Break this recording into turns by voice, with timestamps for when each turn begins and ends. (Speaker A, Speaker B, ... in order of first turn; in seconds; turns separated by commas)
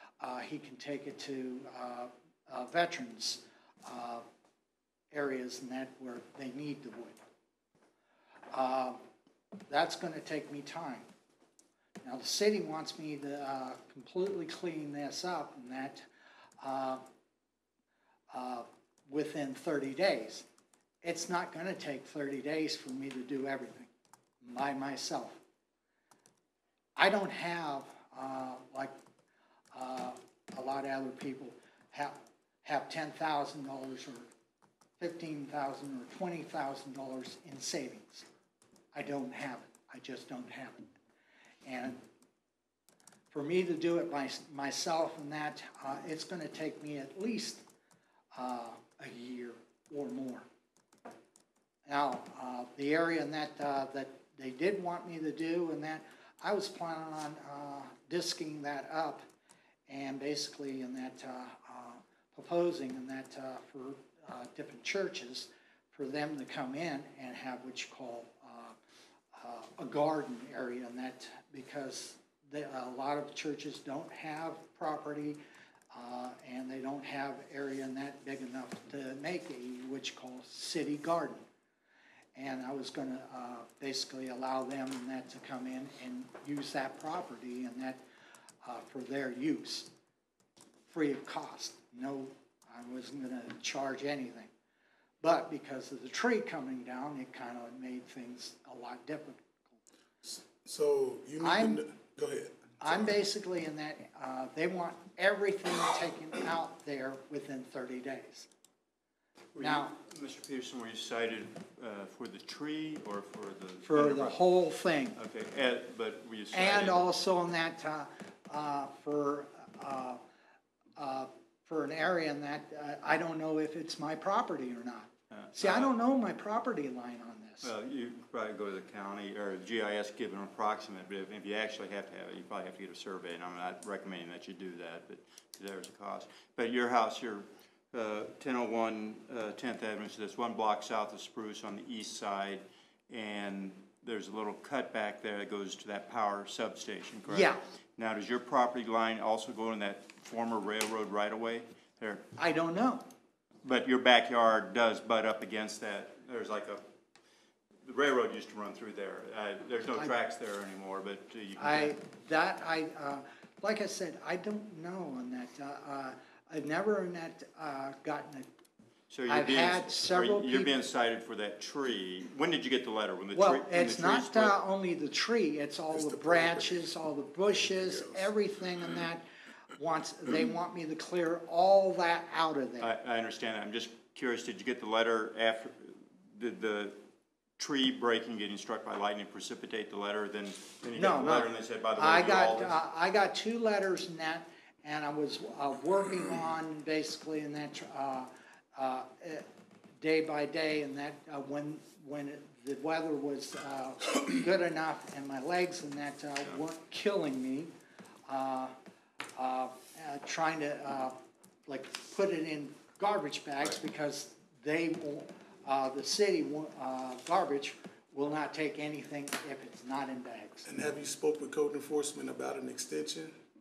Speaker A: 0.2-4.2, Speaker A: 5.1-7.2, Speaker A: 8.5-9.0, Speaker A: 9.7-11.1, Speaker A: 12.0-16.1, Speaker A: 16.6-17.0, Speaker A: 18.3-20.5, Speaker A: 21.0-23.9, Speaker A: 24.4-25.4, Speaker A: 27.0-29.0, Speaker A: 29.7-34.3, Speaker A: 35.0-38.3, Speaker A: 38.9-40.9, Speaker A: 41.6-42.0, Speaker A: 43.3-47.6, Speaker A: 48.4-50.5, Speaker A: 51.9-59.2, Speaker A: 59.9-68.8, Speaker A: 69.3-75.4, Speaker A: 75.9-81.5, Speaker A: 82.3-88.0, Speaker A: 88.6-89.9, Speaker A: 90.9-94.5, Speaker A: 95.2-99.7, Speaker B: 100.2-103.2, Speaker A: 101.4-101.8, Speaker A: 102.8-108.5, Speaker C: 109.5-114.4, Speaker A: 109.6-109.9, Speaker A: 113.8-115.2, Speaker C: 115.2-117.1, Speaker A: 116.5-120.2, Speaker A: 121.0-127.7, Speaker C: 125.3-125.9, Speaker C: 127.6-152.3, Speaker A: 147.3-147.6, Speaker A: 152.4-153.1, Speaker C: 153.6-156.8, Speaker C: 157.8-162.0, Speaker A: 161.6-168.5, Speaker C: 169.1-174.6, Speaker A: 169.3-170.8, Speaker A: 173.3-179.2, Speaker B: 175.9-176.8, Speaker B: 177.8-178.2, Speaker A: 179.8-182.9, Speaker C: 182.8-187.0, Speaker C: 187.6-192.8, Speaker A: 190.9-199.5, Speaker A: 200.0-207.7, Speaker A: 208.3-208.8, Speaker A: 209.4-211.2, Speaker A: 211.7-220.7, Speaker B: 220.7-223.3